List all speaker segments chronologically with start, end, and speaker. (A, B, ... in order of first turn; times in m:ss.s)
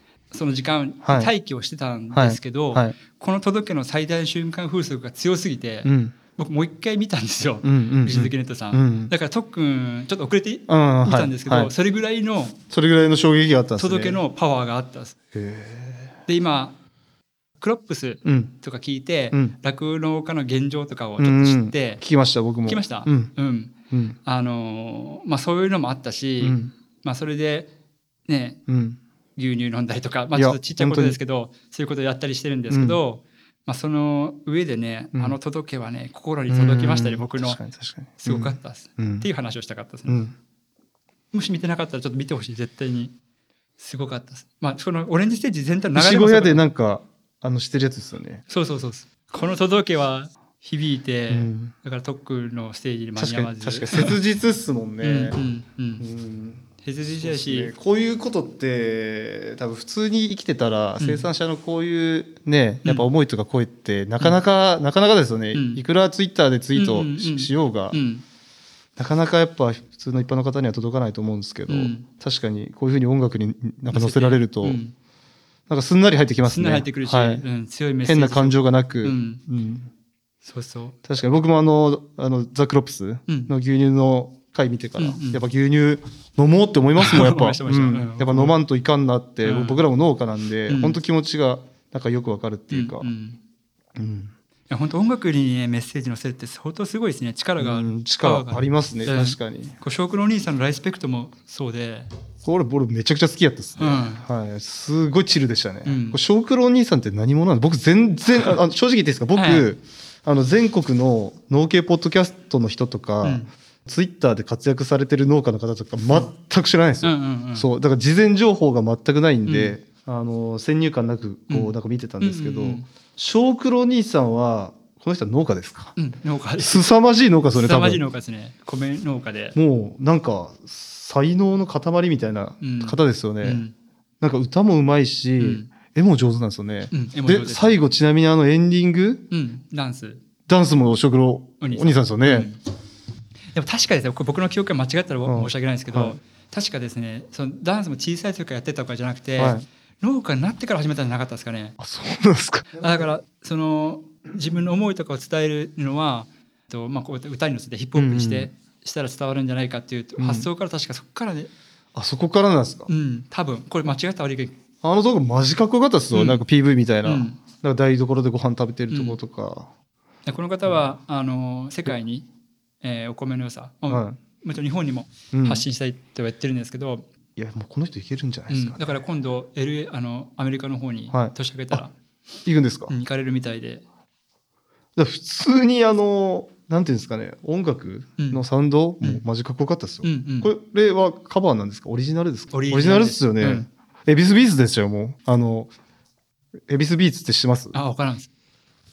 0:00.3-0:12.6 A
0:01.0-0:01.3 B
0:02.1-0:02.9 B
0:05.8-0:06.1 B
0:07.6-0:09.1 B
0:10.7-0:11.7 B
0:12.7-0:14.2 B
0:13.8-0:15.1 A
0:15.3-0:16.2 B
0:16.3-0:16.8 A
0:17.6-0:22.0 A
0:18.2-0:18.5 B
0:21.2-0:23.3 B
0:22.7-0:23.7 A
0:23.9-0:24.2 B
0:24.2-0:27.7 A
0:26.4-0:26.7 B
0:28.3-0:28.6 A
0:28.7-0:29.0 B
0:29.4-0:37.6 A
0:30.3-0:31.2 B
0:32.7-0:33.0 B
0:36.5-0:39.2 B
0:38.2-0:40.2 A
0:40.1-0:40.3 B
0:41.3-0:43.1 A
0:43.8-0:46.6 A
0:45.9-0:48.4 B
0:48.5-0:54.2 A
0:51.3-0:51.7 B
0:53.2-0:55.4 B
0:55.0-0:56.0 A
0:56.0-1:08.0 B
0:56.8-0:57.7 A
1:01.0-1:01.3 A
1:05.5-1:05.8 A
1:06.7-1:08.2 A
1:09.0-1:14.8 B
1:11.7-1:12.0 A
1:13.9-1:14.9 A
1:15.7-1:17.4 B
1:16.4-1:19.4 A
1:18.0-1:19.9 B
1:20.4-1:21.0 A
1:21.0-1:33.1 B
1:25.0-1:25.4 A
1:27.0-1:28.6 A
1:29.4-1:29.8 A
1:30.7-1:31.0 A
1:32.7-1:33.4 A
1:33.9-1:34.3 B
1:34.7-1:42.1 A
1:37.6-1:39.8 B
1:42.4-2:05.9 B
1:43.8-1:44.2 A
1:45.8-1:46.2 A
1:49.3-1:49.7 A
1:53.2-1:53.5 A
1:57.0-1:57.7 A
1:59.4-1:59.8 A
2:01.5-2:02.8 A
2:06.0-2:06.8 A
2:06.6-2:08.0 B
2:07.5-2:09.6 A
2:09.5-2:13.6 B
2:12.6-2:13.7 A
2:14.2-2:19.2 B
2:15.4-2:15.7 A
2:16.9-2:17.8 A
2:19.3-2:20.2 A
2:20.5-2:22.5 B
2:21.6-2:22.6 A
2:23.5-2:31.8 A
2:25.2-2:26.2 B
2:29.4-2:29.6 B
2:31.8-2:33.1 B
2:32.8-2:41.5 A
2:37.9-2:38.5 B
2:40.2-2:40.5 B
2:41.9-2:42.9 B
2:42.9-2:44.5 A
2:44.8-2:49.7 B
2:46.1-2:46.4 A
2:47.0-2:47.4 A
2:48.9-2:49.2 A
2:50.2-2:52.2 A
2:52.8-2:57.0 A
2:53.9-2:54.2 B
2:55.3-2:55.6 B
2:57.4-2:59.0 B
2:58.5-3:01.9 A
3:01.1-3:01.8 B
3:02.4-3:02.9 B
3:02.9-3:03.8 A
3:05.0-3:15.7 B
3:10.0-3:10.5 A
3:12.5-3:13.7 A
3:16.7-3:17.8 B
3:17.7-3:18.3 A